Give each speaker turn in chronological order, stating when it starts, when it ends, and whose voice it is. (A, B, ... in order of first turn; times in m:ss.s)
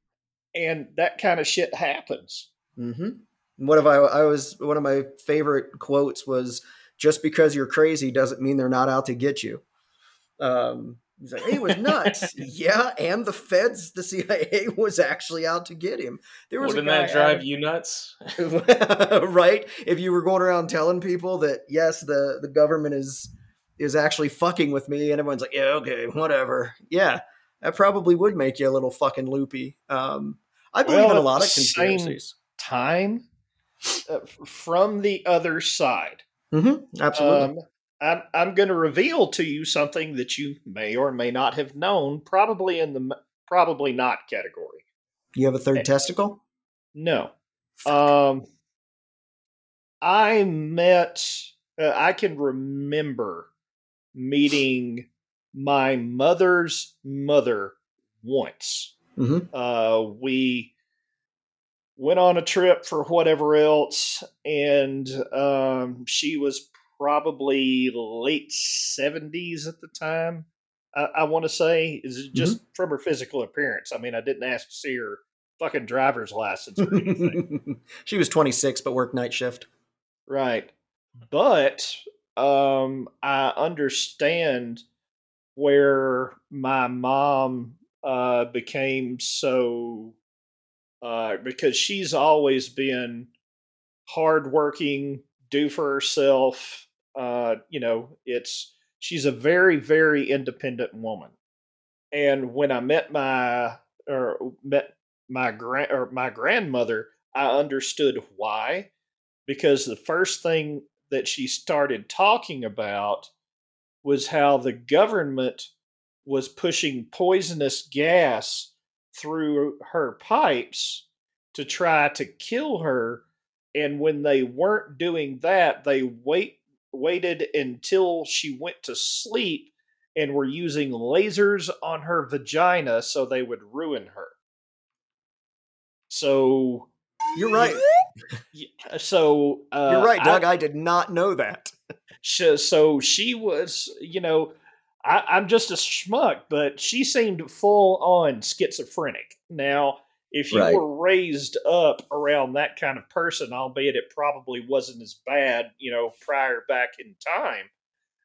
0:00.6-0:02.5 A
0:02.8-0:09.6 B
0:10.4-0:17.4 B
0:12.0-0:12.3 C
0:16.6-0:18.3 C
0:18.4-0:32.4 B
0:30.9-0:33.2 A
0:34.1-0:36.2 A
0:36.5-0:37.5 B
0:37.1-0:44.8 A
0:45.4-0:46.4 B
0:47.0-0:47.3 A
0:47.8-0:48.4 A
0:50.0-0:53.5 A
0:54.2-0:58.9 A
0:59.2-0:59.5 B
0:59.5-1:00.7 A
1:02.0-1:17.4 A
1:16.9-1:19.7 B
1:20.3-1:20.7 A
1:21.3-1:24.8 A
1:25.6-1:30.2 A
1:31.0-1:33.3 A
1:34.1-1:41.3 A
1:42.1-1:48.9 A
1:49.5-1:53.3 A
1:54.0-1:55.7 A
1:56.3-2:03.2 A
2:03.8-2:14.4 A
2:16.1-2:16.9 A
2:17.4-2:17.8 B
2:18.5-2:20.4 A
2:19.9-2:21.7 B
2:22.2-2:24.5 A
2:25.0-2:37.7 A
2:30.5-2:30.8 B